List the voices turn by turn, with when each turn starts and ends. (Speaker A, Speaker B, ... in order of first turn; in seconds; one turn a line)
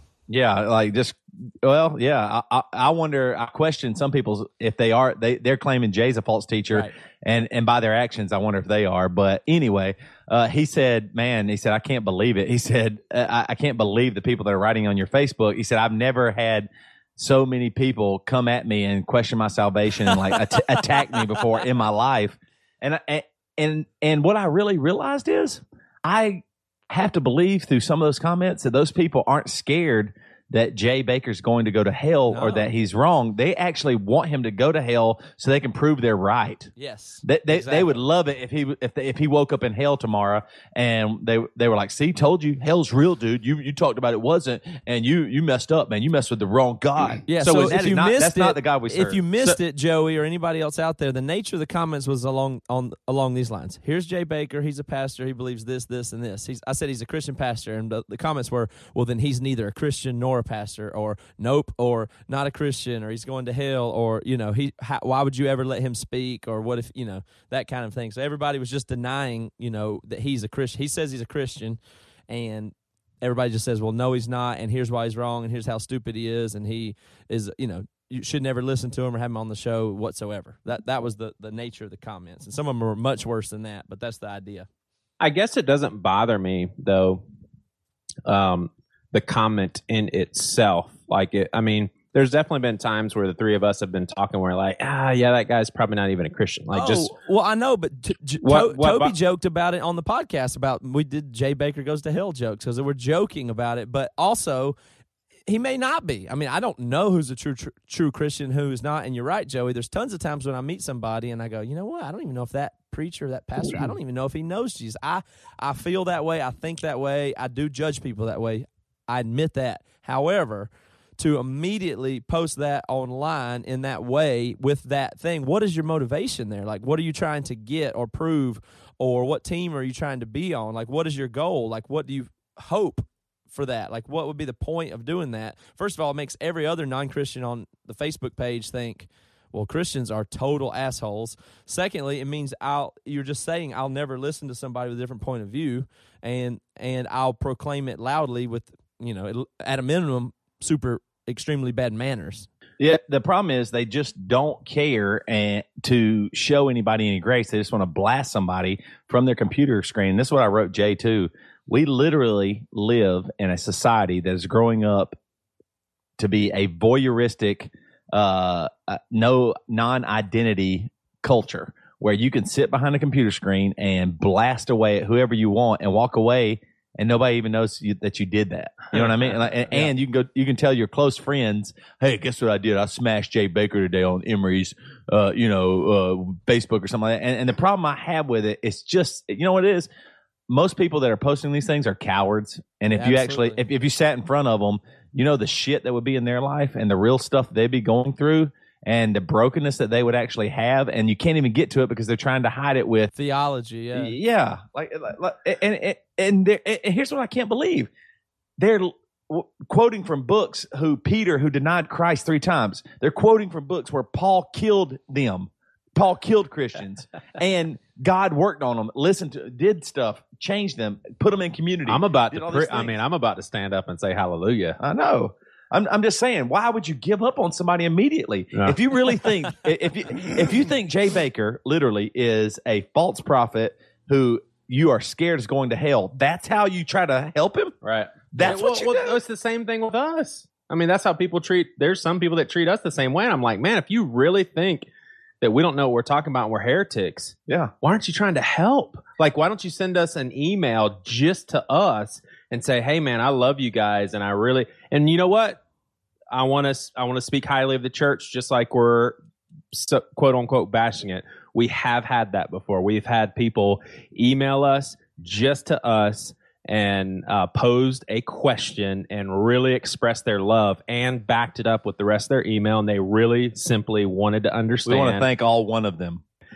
Speaker A: 0.3-36.7
Speaker B: 20.7-21.4
Speaker B: 32.3-32.7
Speaker B: 36.8-38.0
Speaker A: 37.2-49.2
Speaker B: 47.3-84.7
Speaker C: 47.4-47.8
Speaker C: 85.2-87.2
Speaker C: 88.3-97.1
Speaker B: 96.7-104.8
Speaker C: 98.4-99.2
Speaker B: 105.5-152.5
Speaker A: 152.8-165.2
Speaker A: 166.2-189.9
Speaker C: 178.9-179.9
Speaker A: 190.5-203.1
Speaker B: 192.9-193.6
Speaker B: 203.2-204.2
Speaker A: 203.9-207.9
Speaker A: 208.6-223.0
Speaker C: 221.9-224.8
Speaker A: 224.8-237.8
Speaker C: 228.5-228.8
Speaker C: 237.8-244.9
Speaker A: 238.3-239.2
Speaker C: 245.4-255.6
Speaker A: 247.5-247.7
Speaker C: 256.3-259.2
Speaker C: 259.7-275.3
Speaker A: 274.9-276.2